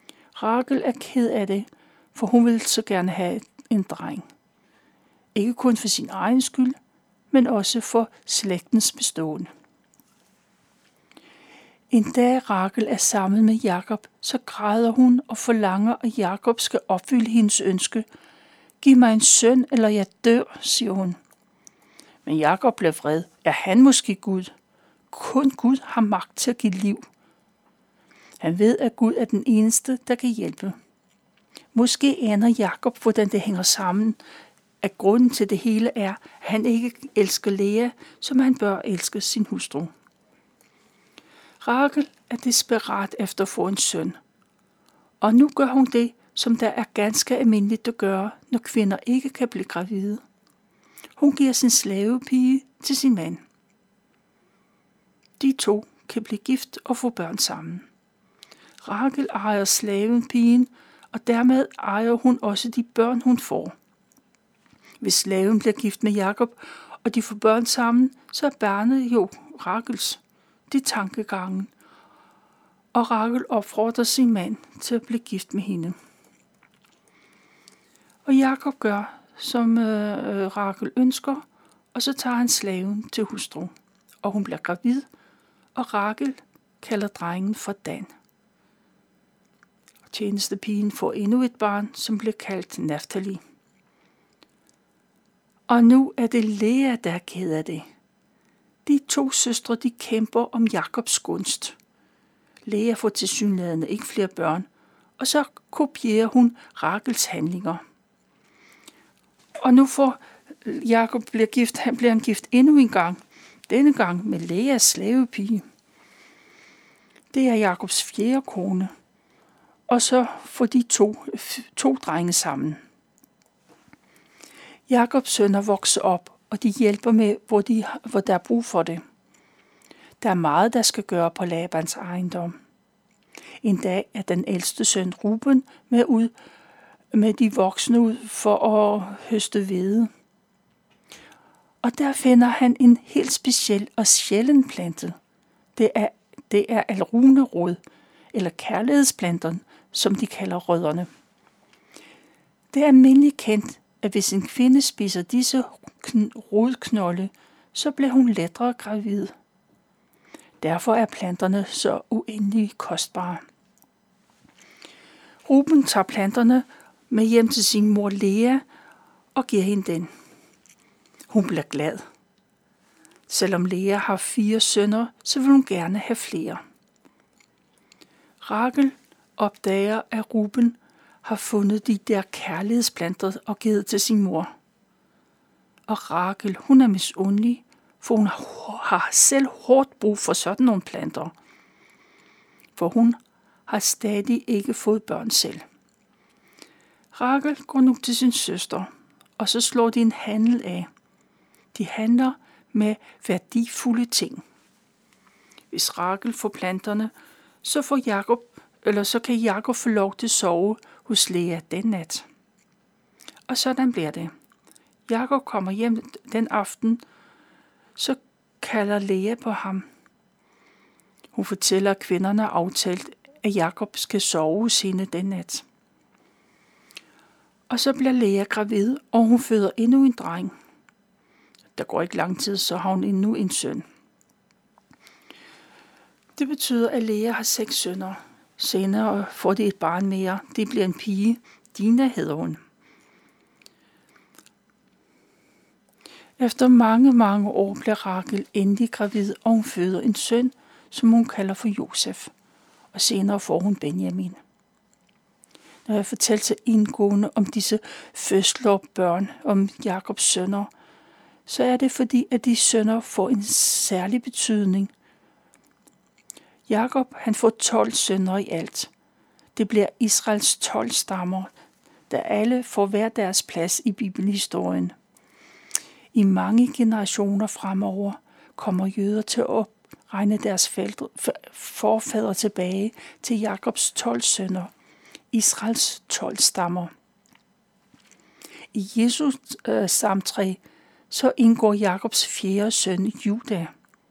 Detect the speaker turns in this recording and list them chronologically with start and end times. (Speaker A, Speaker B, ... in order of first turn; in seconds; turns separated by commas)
Speaker A: 0.4-4.3, Speaker A: 5.3-6.8, Speaker A: 7.3-9.5, Speaker A: 11.9-18.1, Speaker A: 18.8-21.2, Speaker A: 22.2-24.5, Speaker A: 25.1-27.1, Speaker A: 28.4-30.8, Speaker A: 31.7-34.2, Speaker A: 34.8-39.9, Speaker A: 41.6-44.2, Speaker A: 45.2-50.2, Speaker A: 51.2-53.4, Speaker A: 55.4-57.9, Speaker A: 58.8-63.8, Speaker A: 65.0-71.7, Speaker A: 72.9-76.0, Speaker A: 78.3-85.1, Speaker A: 85.8-88.1, Speaker A: 90.1-93.4, Speaker A: 95.7-97.9, Speaker A: 98.8-101.8, Speaker A: 102.7-104.7, Speaker A: 105.2-107.8, Speaker A: 109.6-115.7, Speaker A: 117.3-118.9, Speaker A: 119.9-122.8, Speaker A: 124.9-129.0, Speaker A: 130.2-132.6, Speaker A: 133.6-136.3, Speaker A: 137.1-140.1, Speaker A: 141.8-145.2, Speaker A: 145.8-147.8, Speaker A: 148.3-151.1, Speaker A: 152.7-159.3, Speaker A: 160.6-163.4, Speaker A: 165.5-168.6, Speaker A: 169.3-170.1, Speaker A: 171.3-172.0, Speaker A: 173.3-176.6, Speaker A: 178.4-184.5, Speaker A: 185.9-191.3, Speaker A: 192.8-195.6, Speaker A: 197.1-200.9, Speaker A: 201.7-204.4, Speaker A: 205.7-207.1, Speaker A: 207.6-212.2, Speaker A: 213.5-214.3, Speaker A: 215.1-217.0, Speaker A: 218.0-219.9, Speaker A: 221.3-225.7, Speaker A: 227.7-230.5, Speaker A: 231.8-233.8, Speaker A: 236.4-242.6, Speaker A: 246.4-252.3, Speaker A: 252.9-254.4, Speaker A: 255.9-260.7, Speaker A: 261.5-264.9, Speaker A: 266.7-268.9, Speaker A: 269.6-271.5, Speaker A: 272.1-274.9, Speaker A: 276.1-284.7, Speaker A: 285.3-286.9, Speaker A: 288.7-293.7